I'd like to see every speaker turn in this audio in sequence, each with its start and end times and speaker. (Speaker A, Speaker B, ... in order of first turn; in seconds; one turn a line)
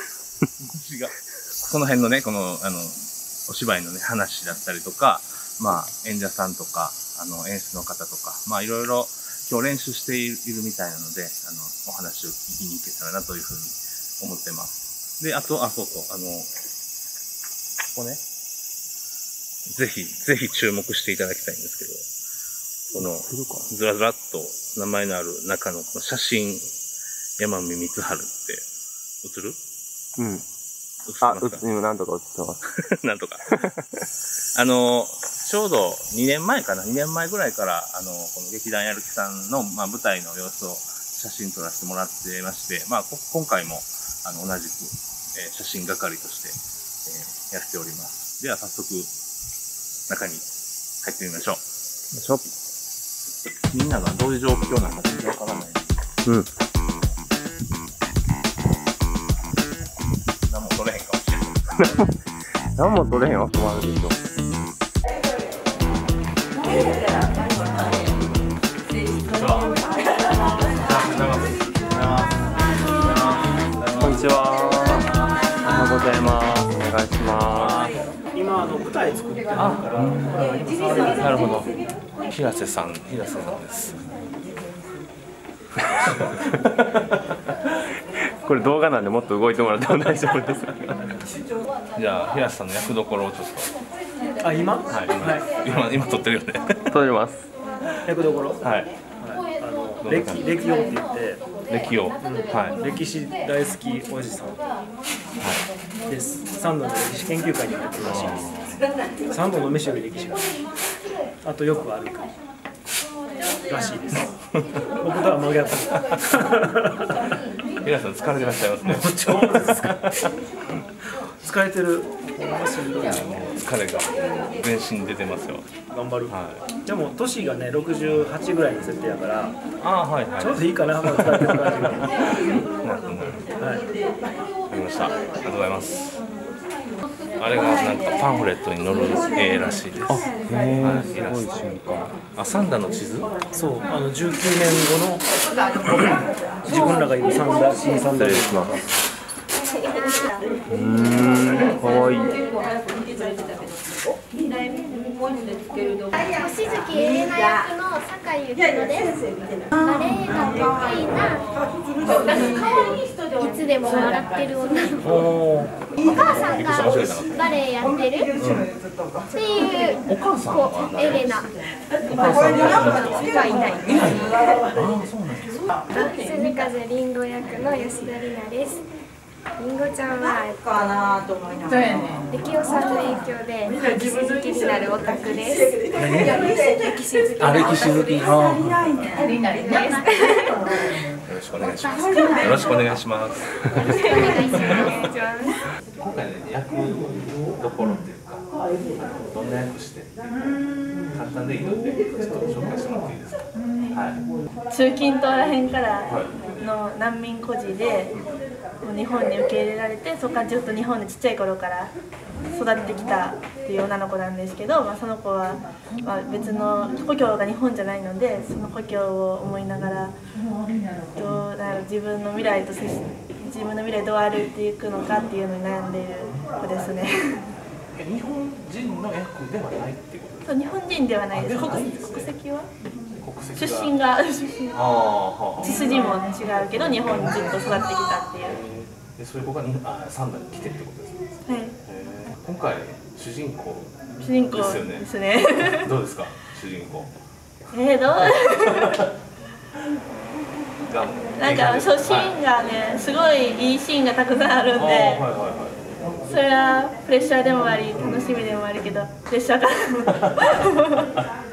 Speaker A: 0.6-16.5
Speaker A: 17.9-18.2
Speaker A: 19.7-22.1
Speaker A: 22.9-26.7
Speaker B: 22.9-23.7
Speaker A: 27.4-28.6
Speaker A: 29.2-29.6
Speaker B: 30.2-30.4
Speaker A: 31.1-31.6
Speaker B: 31.2-32.6
Speaker A: 32.7-33.7
Speaker A: 34.5-49.1
Speaker A: 50.1-50.5
Speaker A: 51.0-51.6
Speaker B: 52.1-52.4
Speaker A: 53.7-55.9
Speaker A: 60.5-61.9
Speaker B: 61.8-62.1
Speaker B: 62.8-64.2
Speaker A: 69.3-69.8
Speaker A: 70.6-74.3
Speaker B: 74.0-75.0
Speaker A: 75.0-76.3
Speaker B: 75.7-77.8
Speaker A: 77.5-78.0
Speaker C: 78.3-80.1
Speaker A: 79.5-84.1
Speaker C: 80.8-81.1
Speaker A: 86.2-86.7
Speaker B: 88.4-91.0
Speaker A: 91.9-93.7
Speaker C: 94.4-95.9
Speaker A: 94.9-96.9
Speaker B: 96.9-97.5
Speaker C: 98.0-101.4
Speaker A: 98.6-98.9
Speaker A: 100.0-100.8
Speaker A: 101.7-102.8
Speaker C: 102.2-104.6
Speaker C: 106.1-108.6
Speaker A: 108.0-108.7
Speaker C: 109.2-110.6
Speaker C: 111.4-112.3
Speaker C: 113.7-114.3
Speaker C: 115.0-117.1
Speaker A: 117.8-120.3
Speaker C: 118.8-120.2
Speaker C: 121.4-123.5
Speaker A: 122.9-125.7
Speaker C: 125.9-129.6
Speaker A: 126.3-126.7
Speaker A: 129.8-133.5
Speaker C: 130.4-132.1
Speaker C: 133.6-133.8
Speaker A: 134.7-136.0
Speaker A: 137.4-143.3
Speaker B: 140.1-142.1
Speaker C: 143.5-145.2
Speaker C: 145.9-148.6
Speaker B: 148.1-148.7
Speaker D: 149.9-150.2
Speaker B: 150.7-152.3
Speaker D: 156.3-161.5
Speaker D: 162.0-165.3
Speaker A: 165.0-167.5
Speaker D: 166.1-168.3
Speaker A: 168.3-168.7
Speaker D: 169.3-171.5
Speaker A: 170.0-171.4
Speaker A: 172.0-175.7
Speaker E: 172.4-172.9
Speaker D: 172.9-174.5
Speaker D: 175.9-178.8
Speaker D: 179.6-180.6
Speaker E: 180.3-182.4
Speaker D: 182.3-185.9
Speaker C: 185.9-186.3
Speaker A: 186.1-186.5
Speaker E: 186.4-186.8
Speaker A: 187.3-189.3
Speaker E: 188.3-189.7
Speaker D: 189.6-190.7
Speaker A: 191.2-195.1
Speaker D: 191.6-192.5
Speaker E: 192.1-192.4
Speaker D: 193.8-195.6
Speaker A: 196.0-200.5
Speaker A: 201.0-204.2
Speaker F: 204.7-208.1
Speaker A: 206.1-206.3
Speaker F: 208.8-211.9
Speaker F: 212.5-220.1
Speaker F: 221.2-227.4
Speaker A: 227.9-230.5
Speaker F: 230.4-232.7
Speaker A: 231.3-232.3
Speaker A: 233.2-233.9
Speaker F: 233.6-234.8
Speaker A: 234.7-236.1
Speaker F: 235.6-238.6
Speaker A: 237.2-237.6
Speaker A: 238.4-241.3
Speaker F: 241.5-241.8
Speaker A: 241.8-247.1
Speaker F: 244.2-245.9
Speaker F: 247.7-249.1
Speaker A: 248.2-249.1
Speaker A: 250.9-252.3
Speaker F: 251.4-255.2
Speaker A: 254.8-256.2
Speaker F: 256.2-261.1
Speaker A: 257.9-258.4